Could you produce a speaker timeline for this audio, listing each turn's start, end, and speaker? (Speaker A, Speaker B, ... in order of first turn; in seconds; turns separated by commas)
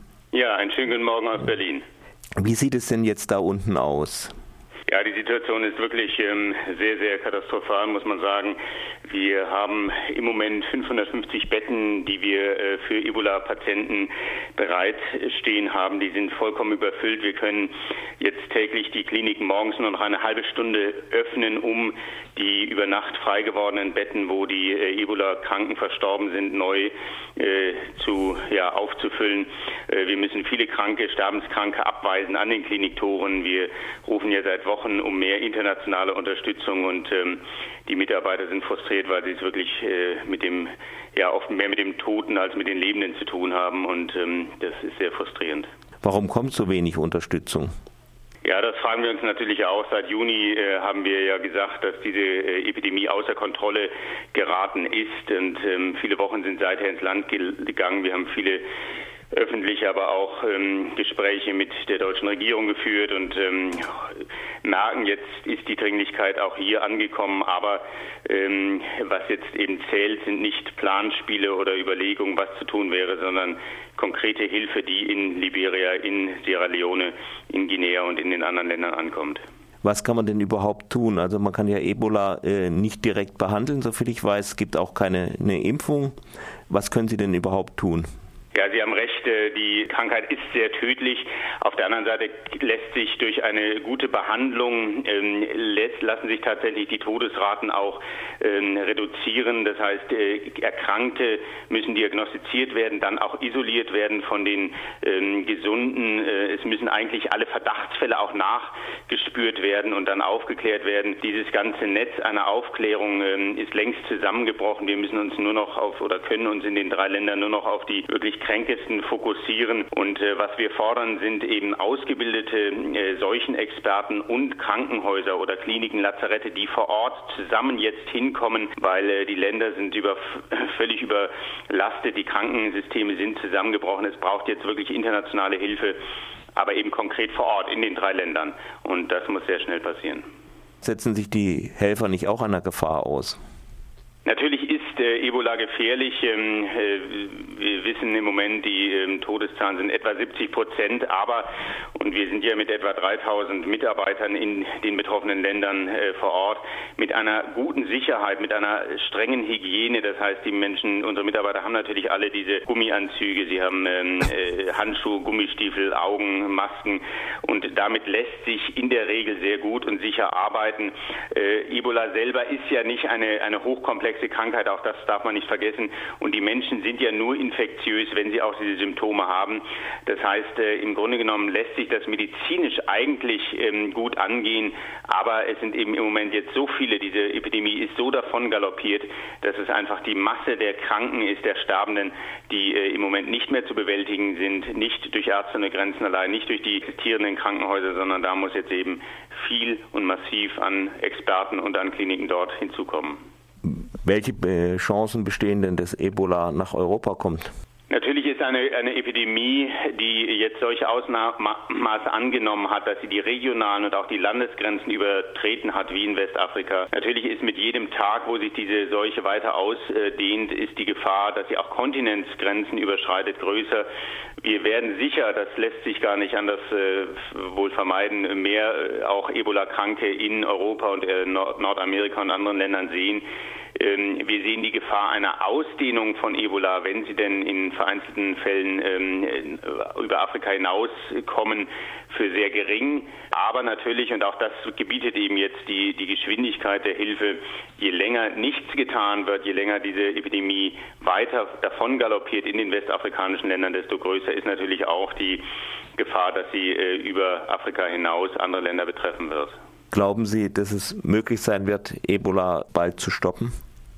Speaker A: 0.3-1.8, Speaker B: 2.4-4.3, Speaker A: 4.9-8.6, Speaker A: 9.1-45.7, Speaker B: 46.0-47.7, Speaker A: 48.4-58.6, Speaker A: 59.3-64.1, Speaker A: 64.6-79.4, Speaker B: 79.8-86.1, Speaker B: 86.7-88.1, Speaker A: 88.5-136.0, Speaker A: 136.6-140.2, Speaker B: 140.8-143.4, Speaker A: 144.2-203.2, Speaker B: 203.6-207.5, Speaker A: 207.9-223.8, Speaker A: 224.4-255.4, Speaker A: 255.9-259.6, Speaker B: 259.9-263.5